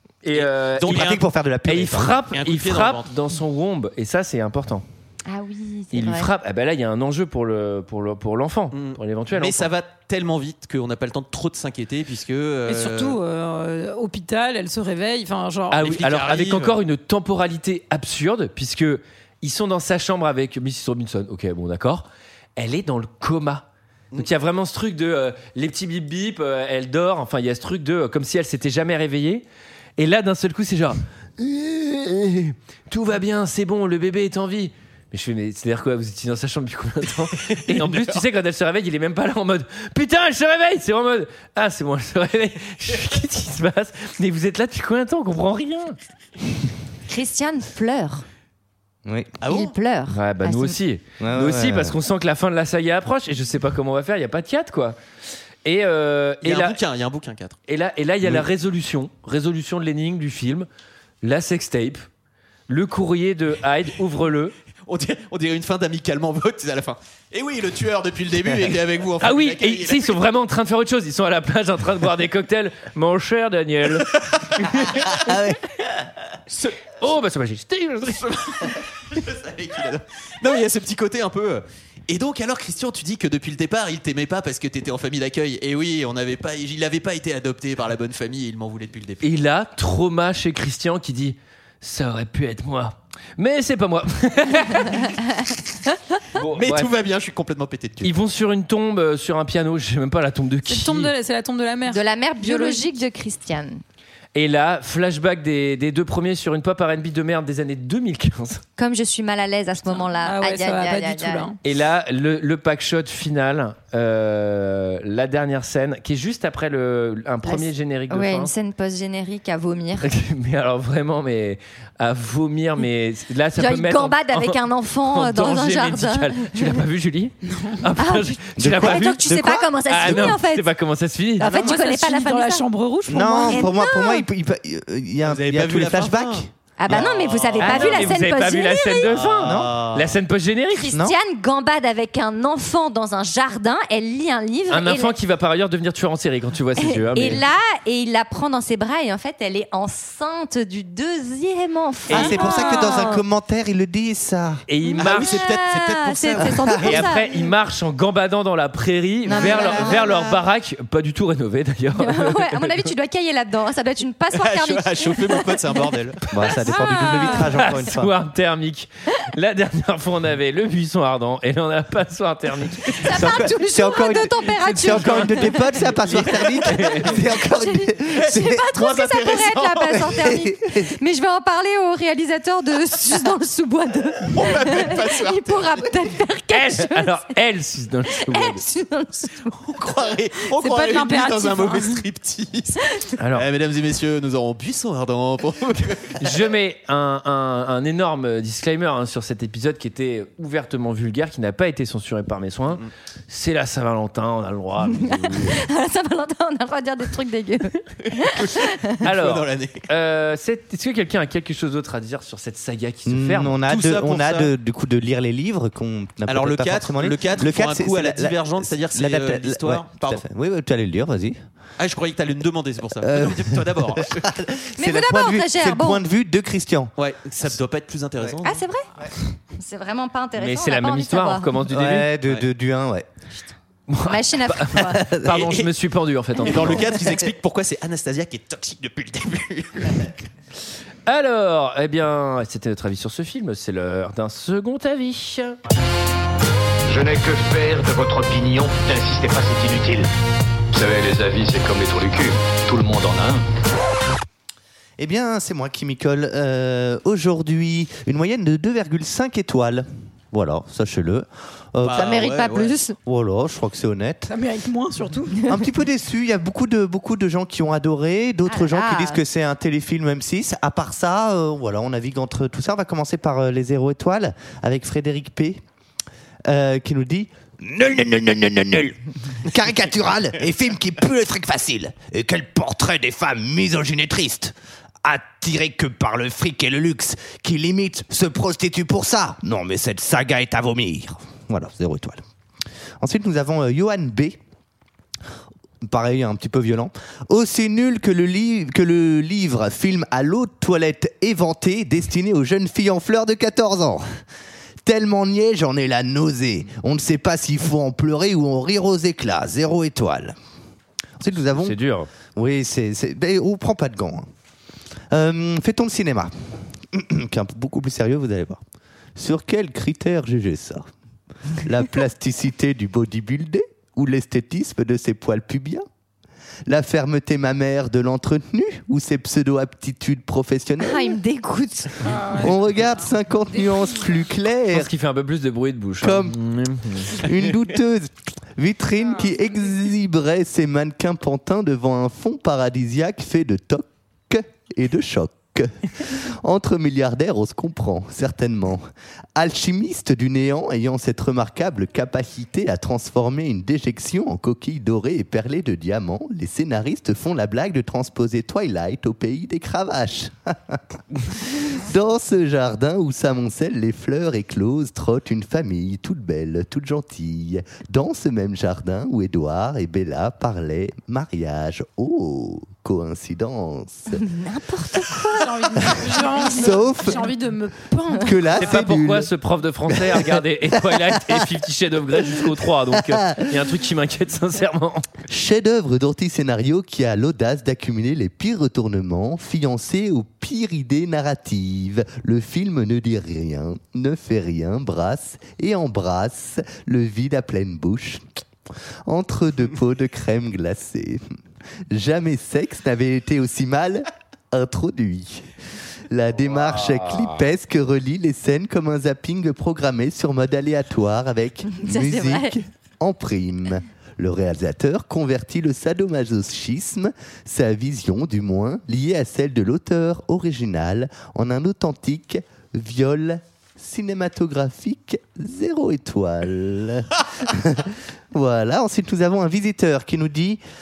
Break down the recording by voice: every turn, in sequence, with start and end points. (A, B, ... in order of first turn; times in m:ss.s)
0:00.2-0:04.8 A
0:00.3-0:01.2 B
0:00.8-0:02.2 C
0:02.3-0:03.1 B
0:05.3-0:06.3 D
0:05.9-0:09.7 A
0:08.7-0:13.2 B
0:12.7-0:15.8 E
0:15.7-0:23.6 A
0:15.7-0:16.8 B
0:24.2-0:29.4 A
0:30.0-0:46.0 A
0:37.7-0:38.2 B
0:47.1-0:48.2 D
0:49.1-0:49.3 C
0:49.4-0:49.7 B
0:49.5-0:50.8 D
0:50.1-0:55.0 A
0:51.2-0:52.0 C
0:55.6-0:56.8 A
0:56.4-0:57.6 B
0:57.7-1:00.7 A
1:01.2-1:02.0 A
1:02.7-1:04.5 A
1:04.9-1:10.2 B
1:09.2-1:15.4 A
1:15.1-1:15.6 C
1:17.0-1:18.7 A
1:18.3-1:29.3 B
1:29.2-1:35.1 A
1:36.3-1:36.9 A
1:36.5-1:38.1 B
1:38.0-1:41.1 A
1:40.7-1:42.9 E
1:41.9-1:43.8 D
1:44.4-1:48.6 A
1:48.8-1:51.5 D
1:50.2-1:51.6 E
1:51.6-1:58.5 A
1:57.4-2:00.1 D
2:00.0-2:09.2 A
2:03.6-2:06.8 D
2:07.4-2:07.8 E
2:08.0-2:10.7 D
2:08.6-2:10.4 C
2:09.8-2:11.5 A
2:11.4-2:12.6 D
2:11.4-2:13.7 E
2:11.4-2:11.8 C
2:13.1-2:17.1 C
2:13.5-2:14.2 D
2:15.2-2:18.1 B
2:16.8-2:19.1 D
2:17.6-2:20.9 A
2:19.1-2:19.6 B
2:19.4-2:20.2 C
2:20.8-2:25.1 D
2:20.9-2:21.2 C
2:24.7-2:27.4 A
2:26.8-2:33.2 D
2:32.1-2:34.6 C
2:34.7-2:35.4 A
2:34.8-2:37.3 D
2:35.0-2:37.1 B
2:36.8-2:42.9 A
2:39.3-2:40.4 D
2:42.0-2:45.9 D
2:44.3-2:46.3 B
2:46.3-2:48.1 C
2:46.6-2:47.6 D
2:47.3-2:53.0 A
2:53.0-2:55.7 D
2:53.1-2:58.7 C
2:54.7-2:56.1 A
2:56.7-2:57.2 A
2:57.4-3:07.2 D
2:58.2-3:00.2 B
3:00.0-3:00.9 C
3:04.3-3:05.8 B
3:06.5-3:08.6 A
3:08.3-3:09.6 D
3:09.6-3:12.8 B
3:10.6-3:12.0 E
3:13.2-3:13.5 A
3:13.3-3:16.4 B
3:16.2-3:25.6 A
3:24.9-3:28.8 D
3:28.3-3:29.8 B
3:29.0-3:33.6 A
3:33.1-3:41.4 C
3:33.7-3:34.5 B
3:36.3-3:40.2 B
3:41.8-3:44.3 B
3:43.0-3:46.9 C
3:44.8-3:46.0 D
3:47.0-3:48.6 B
3:48.4-3:48.9 D
3:49.6-3:51.6 D
3:50.4-3:52.1 A
3:51.7-3:53.1 C
3:53.9-3:56.8 A
3:54.0-3:55.1 D
3:54.9-3:55.4 C
3:55.3-3:55.6 B
3:56.4-4:00.1 B
4:01.1-4:05.6 A
4:06.8-4:10.1 F
4:10.7-4:13.4 F
4:15.0-4:22.3 C
4:21.8-4:22.7 B
4:21.9-4:23.0 D
4:23.0-4:24.3 C
4:24.3-4:25.4 E
4:25.4-4:35.6 C
4:28.4-4:29.2 D
4:36.4-4:52.2 C
4:53.0-4:54.4 C
4:55.8-5:04.0 C
5:04.8-5:10.4 C
5:11.2-5:11.8 C
5:11.6-5:12.1 A
5:12.3-5:14.3 C
5:15.1-5:16.3 C
5:16.9-5:18.6 C
5:19.2-5:20.9 C
5:21.6-5:25.8 C
5:26.7-5:31.2 C
5:30.8-5:32.2 D
5:32.0-5:32.9 E
5:32.4-5:34.9 C
5:34.7-5:37.1 A
5:36.0-5:36.4 C
5:37.1-6:14.2 C
6:14.1-6:15.9 D
6:15.4-6:18.7 E
6:15.8-6:17.3 C
6:18.1-6:19.3 C
6:18.6-6:25.1 A
6:19.9-6:21.4 C
6:22.3-6:23.5 C
6:25.3-6:38.2 C
6:39.0-6:41.3 C
6:41.9-6:45.5 C
6:46.1-7:10.6 C
6:46.4-6:47.4 A
6:51.7-6:52.6 D